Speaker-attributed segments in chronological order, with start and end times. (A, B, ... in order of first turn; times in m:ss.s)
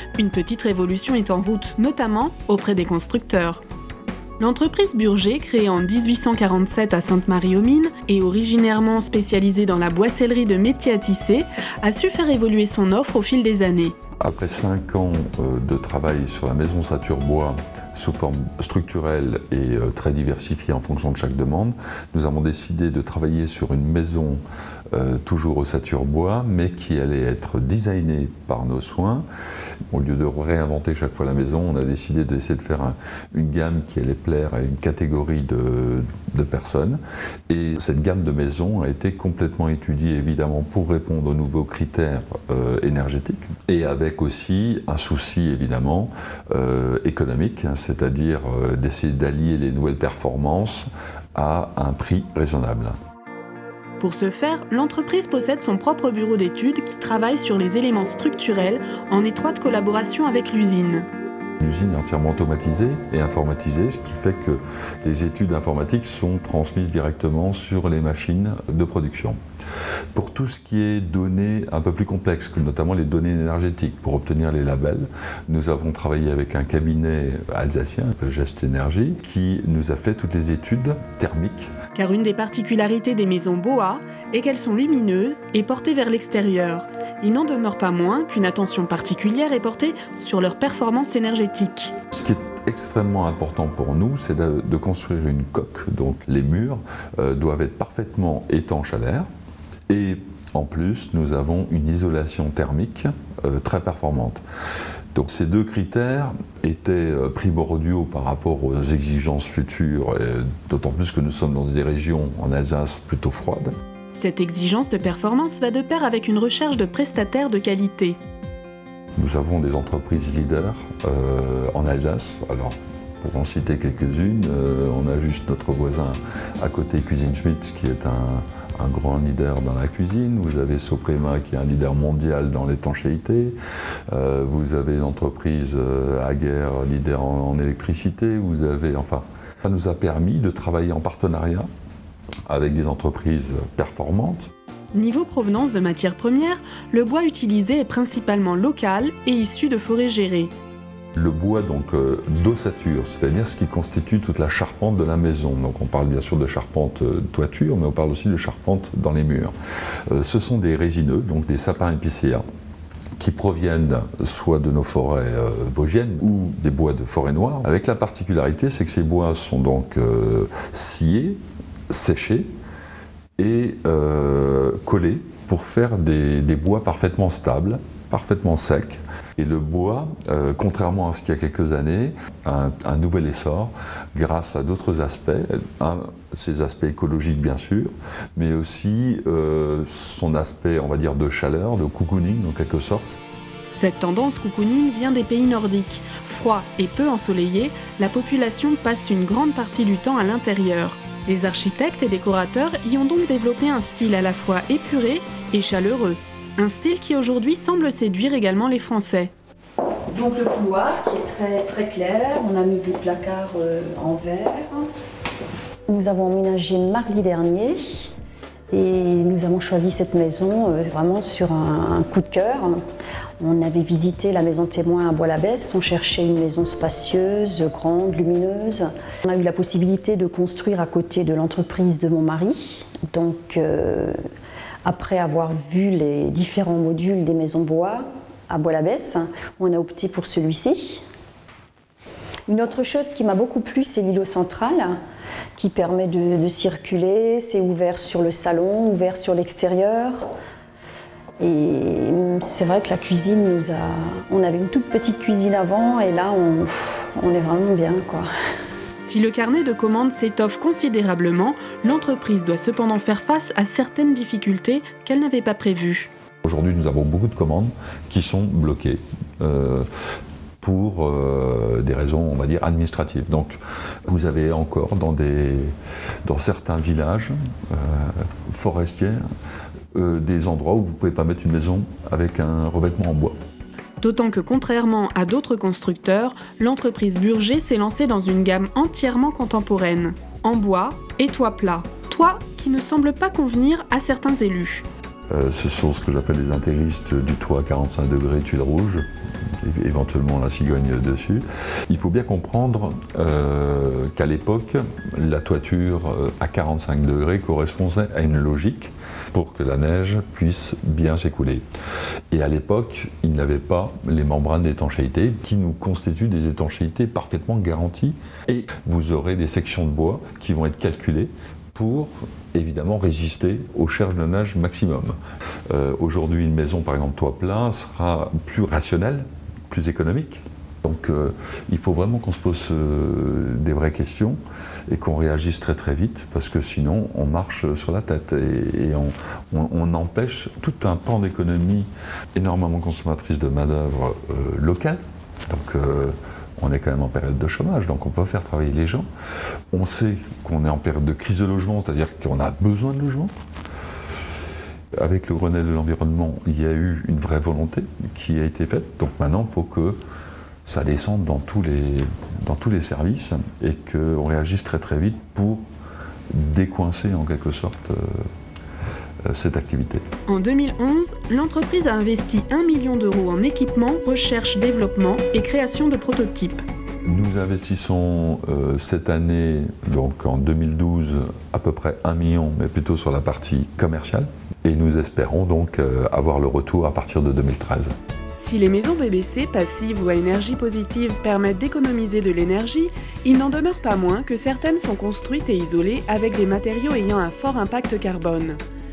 0:00.2-0:03.6 A
0:04.4-0:13.9 A
0:14.2-0:24.4 B
0:24.9-0:29.2 B
0:29.9-0:53.0 B
0:54.0-1:01.1 A
1:01.6-1:09.4 B
1:10.1-1:21.7 B
1:21.9-1:31.9 A
1:32.1-1:39.3 B
1:39.9-1:44.4 B
1:45.1-1:53.7 B
1:54.1-1:58.2 A
1:59.2-2:13.6 B
2:14.1-2:21.7 B
2:22.5-2:24.5 B
2:24.9-2:30.5 A
2:31.1-2:39.5 B
2:40.1-2:42.4 B
2:43.2-2:52.5 B
2:53.4-3:13.2 B
3:13.7-3:29.3 A
3:30.1-3:34.9 C
3:35.9-3:38.1 C
3:38.7-3:42.8 C
3:43.4-3:54.2 C
3:54.8-4:01.0 C
4:02.5-4:05.0 C
4:05.5-4:10.3 C
4:11.4-4:18.3 C
4:19.0-4:26.1 A
4:26.4-4:29.9 B
4:30.6-4:35.7 B
4:36.2-4:39.2 B
4:39.9-4:43.4 B
4:44.0-4:54.8 A
4:55.3-4:59.0 B
4:59.6-5:11.6 B
5:12.3-5:25.2 B
5:25.7-5:49.1 B
5:49.7-5:53.3 B
5:55.0-6:00.0 B
6:00.6-6:05.6 B
6:06.3-6:08.2 B
6:09.3-6:10.0 B
6:10.3-6:16.6 A
6:17.0-6:27.9 B
6:28.4-6:38.6 A